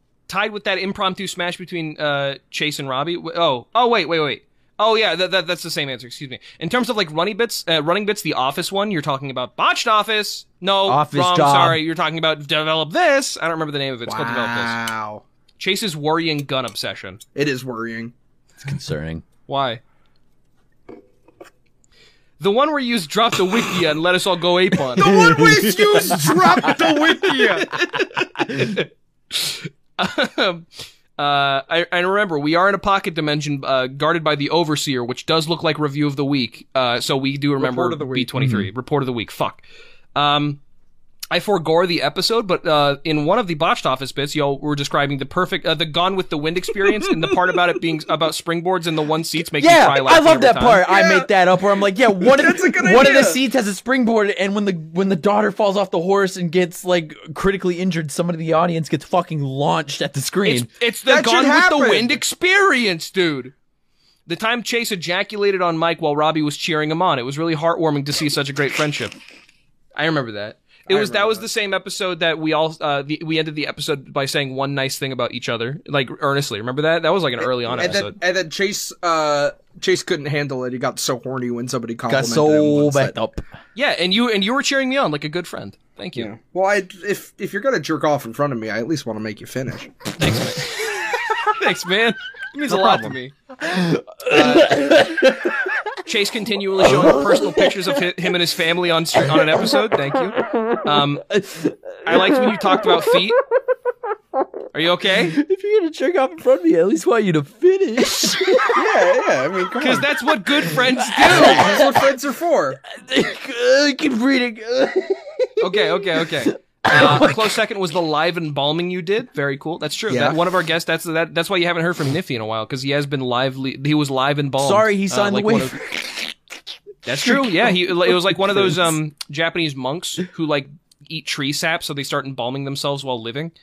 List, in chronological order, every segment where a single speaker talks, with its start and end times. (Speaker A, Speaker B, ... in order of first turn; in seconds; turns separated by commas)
Speaker A: 0.3-14.8, Speaker B: 10.9-11.8, Speaker C: 14.1-15.2, Speaker A: 15.6-17.2, Speaker C: 17.4-18.1, Speaker B: 18.6-19.2, Speaker A: 19.5-19.8, Speaker A: 22.4-25.1, Speaker B: 25.0-26.8, Speaker C: 25.0-27.8, Speaker A: 27.7-39.6, Speaker B: 28.4-28.7, Speaker C: 37.6-38.3, Speaker B: 38.4-38.7, Speaker A: 40.1-40.6, Speaker A: 41.3-50.8, Speaker B: 49.6-60.7, Speaker C: 50.8-51.3, Speaker C: 52.2-53.4, Speaker A: 60.5-63.5, Speaker C: 61.1-62.2, Speaker A: 64.3-69.2, Speaker A: 70.0-78.2, Speaker C: 70.9-71.5, Speaker C: 77.7-83.1, Speaker B: 82.1-83.5, Speaker A: 83.8-86.3, Speaker C: 86.2-89.9, Speaker A: 90.2-93.3, Speaker B: 92.6-95.8, Speaker A: 94.3-94.7, Speaker A: 96.1-101.2, Speaker B: 96.8-98.0, Speaker B: 99.3-99.7, Speaker B: 101.3-103.2, Speaker A: 102.0-103.4, Speaker A: 104.7-105.4, Speaker B: 105.2-109.0, Speaker C: 108.7-110.1, Speaker A: 109.8-111.7, Speaker B: 110.7-112.1, Speaker C: 111.3-112.8, Speaker B: 112.9-117.5, Speaker A: 115.6-125.8, Speaker C: 120.1-120.4, Speaker B: 124.6-126.3, Speaker A: 127.0-133.5, Speaker B: 127.1-128.9